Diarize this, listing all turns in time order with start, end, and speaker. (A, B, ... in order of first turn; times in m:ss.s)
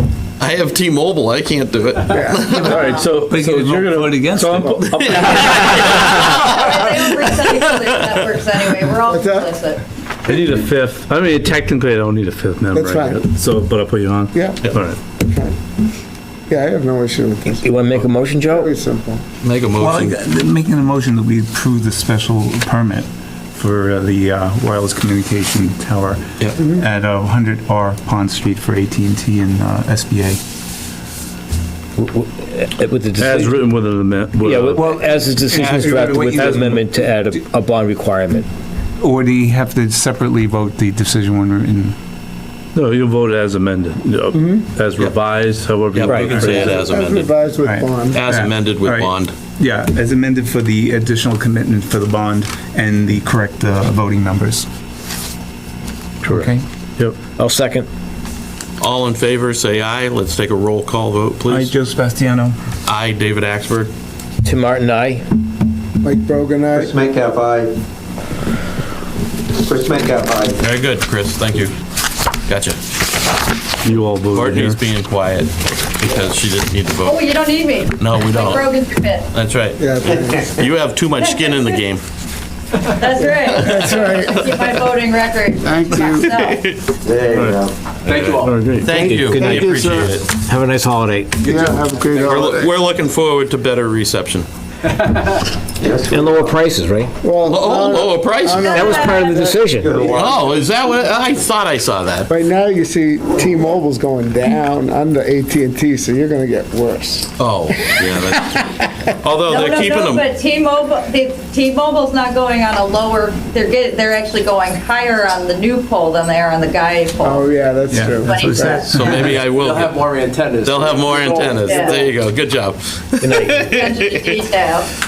0:00.4-0:02.8 A
0:02.1-0:03.0 B
0:02.6-0:06.2 C
0:02.7-0:03.1 D
0:03.2-0:04.8 E
0:04.9-0:07.9 A
0:06.4-0:09.8 D
0:09.1-0:09.5 B
0:10.2-0:15.0 C
0:12.7-0:13.2 B
0:14.3-0:15.6 B
0:16.5-0:17.9 B
0:17.6-0:18.7 F
0:18.5-0:19.2 B
0:19.4-0:20.2 A
0:19.8-0:30.4 E
0:32.0-0:33.6 F
0:33.2-0:35.0 C
0:34.4-0:38.5 F
0:34.8-0:37.3 E
0:36.2-0:36.8 C
0:39.0-0:42.0 E
0:42.8-0:46.8 C
0:44.3-0:44.7 B
0:45.9-0:47.3 A
0:46.1-0:46.4 F
0:46.1-0:46.6 E
0:46.5-0:48.2 B
0:47.6-0:54.7 E
0:48.1-0:49.3 A
0:56.2-0:57.2 C
0:56.3-0:56.6 E
0:57.4-0:57.9 F
0:58.8-1:01.7 A
1:01.5-1:02.6 E
1:02.9-1:03.9 A
1:04.4-1:05.2 F
1:06.0-1:07.0 B
1:06.7-1:07.8 G
1:09.5-1:10.6 G
1:10.6-1:11.8 A
1:12.5-1:12.8 A
1:13.8-1:14.8 C
1:14.3-1:17.3 A
1:17.0-1:19.3 D
1:18.0-1:18.7 A
1:19.3-1:22.0 A
1:19.8-1:20.5 B
1:20.1-1:20.7 G
1:21.2-1:21.8 D
1:22.8-1:26.6 D
1:23.2-1:24.5 B
1:23.5-1:24.8 A
1:25.6-1:26.3 B
1:26.2-1:26.9 A
1:27.0-1:27.8 G
1:27.3-1:27.6 C
1:28.0-1:30.3 A
1:28.1-1:28.6 H
1:28.4-1:28.9 C
1:29.0-1:31.5 F
1:29.7-1:30.1 B
1:31.4-1:32.3 H
1:31.5-1:32.7 B
1:32.2-1:34.5 A
1:35.0-1:35.4 H
1:35.8-1:36.6 G
1:36.1-1:37.2 F
1:37.2-1:40.4 B
1:37.4-1:39.1 A
1:38.6-1:39.4 D
1:38.7-1:40.0 F
1:39.7-1:40.7 G
1:40.0-1:42.3 A
1:42.3-1:47.3 B
1:47.4-1:50.2 A
1:48.0-1:48.5 B
1:49.5-1:58.9 D
1:57.2-1:58.9 B
1:57.9-1:59.3 E
1:58.9-2:00.0 A
1:59.0-2:02.0 H
2:00.6-2:04.4 A
2:01.6-2:02.0 D
2:03.2-2:03.6 F
2:03.6-2:04.9 D